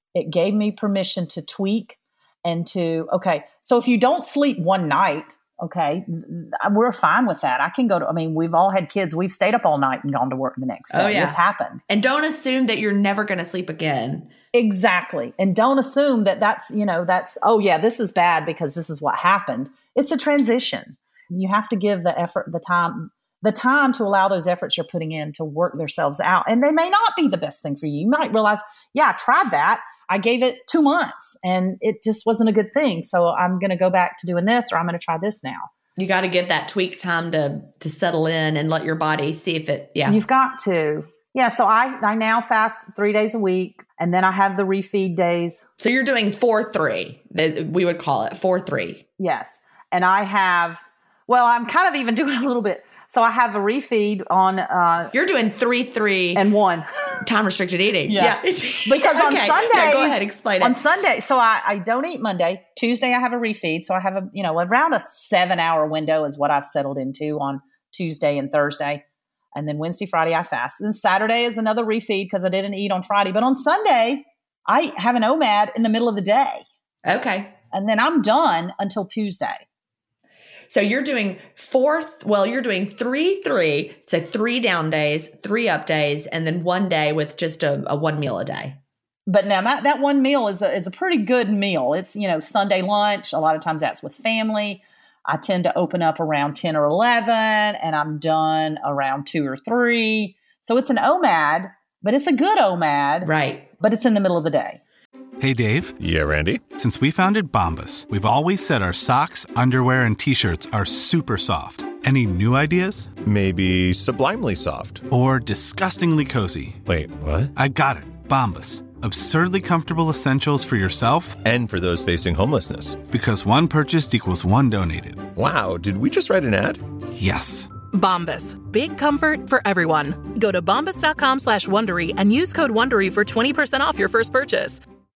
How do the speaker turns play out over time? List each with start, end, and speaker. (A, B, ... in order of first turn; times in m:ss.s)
0:00.1-0:11.8 A
0:10.9-0:14.3 B
0:14.5-0:35.7 A
0:36.0-0:40.2 B
0:40.0-0:45.6 A
0:45.8-0:49.0 B
0:49.2-0:55.1 A
0:55.1-0:56.4 B
0:56.3-0:57.2 A
0:57.2-1:00.8 B
0:58.1-1:09.0 A
1:09.5-1:16.6 A
1:17.0-1:17.5 B
1:17.7-1:19.6 A
1:20.7-1:28.8 B
1:29.3-1:44.8 A
1:43.2-1:43.7 B
1:45.4-1:46.0 C
1:46.0-1:46.6 D
1:46.7-1:53.1 C
1:53.2-1:55.0 D
1:55.1-1:56.8 C
1:56.8-1:57.5 D
1:57.5-2:01.4 C
2:01.4-2:03.0 D
2:03.1-2:05.3 C
2:05.3-2:06.8 D
2:07.1-2:07.7 C
2:07.9-2:14.8 E